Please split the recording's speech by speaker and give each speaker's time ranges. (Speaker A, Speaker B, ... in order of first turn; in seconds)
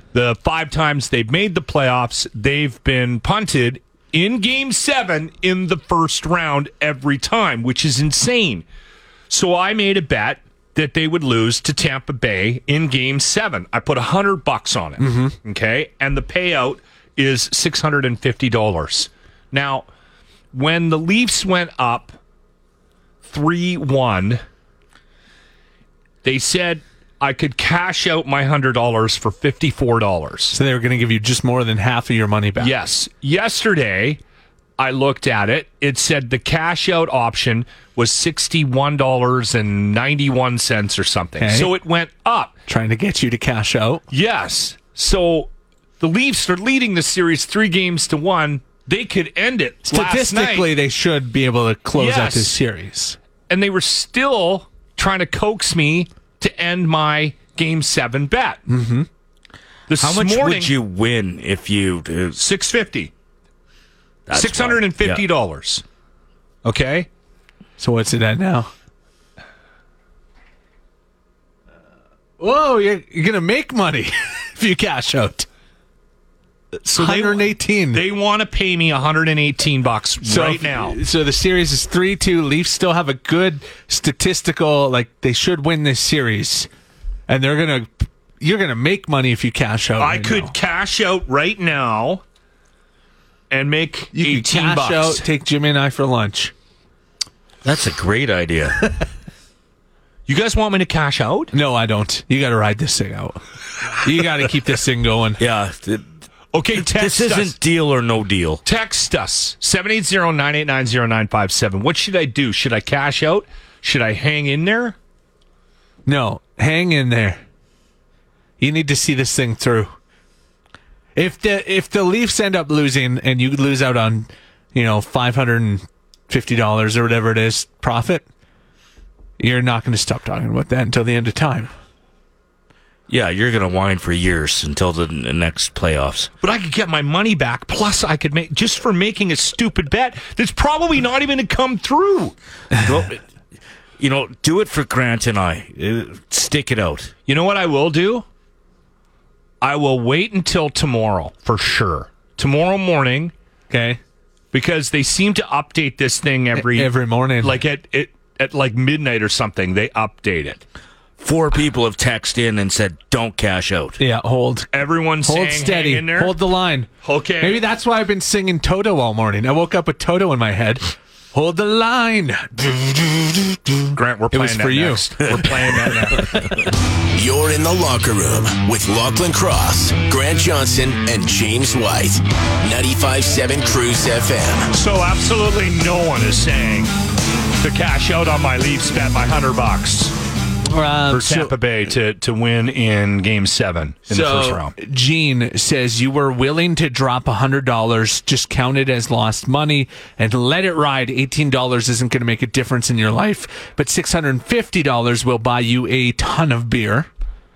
Speaker A: 0.1-8.7, 9.3-19.9, 20.5-22.2, 23.2-24.4, 26.2-30.6, 32.6-34.2, 34.8-42.6, 44.1-50.7, 52.0-52.6, 53.5-58.6, 59.9-60.7, 62.4-63.1, 64.3-65.8, 66.7-67.1, 76.8-81.0, 90.0-92.2, 93.5-95.2, 100.3-101.5, 106.5-107.5, 108.6-115.0, 136.4-142.3, 147.3-148.2, 149.6-153.3, 154.5-160.6, 164.7-166.4, 167.0-167.6, 173.9-176.6, 184.7-186.9, 187.6-190.1, 191.1-194.7
Speaker B: 15.0-15.4, 30.5-32.7, 41.4-41.7, 42.7-44.0, 49.9-53.2, 58.7-59.1, 67.8-68.7, 72.4-75.5, 77.0-78.0, 80.2-86.7, 87.3-90.5, 94.1-96.5, 101.5-103.4, 104.0-105.4, 116.1-117.4, 118.6-119.9, 121.2-128.2, 129.4-131.7, 153.7-154.0, 156.6-157.6, 164.0-176.4, 190.7-191.6, 194.1-207.1
Speaker C: 60.0-62.4, 64.3-65.2, 97.6-98.9, 105.4-106.1, 106.8-108.6, 133.1-136.3, 142.7-143.2, 144.0-147.1, 161.2-164.0
Speaker D: 177.1-184.7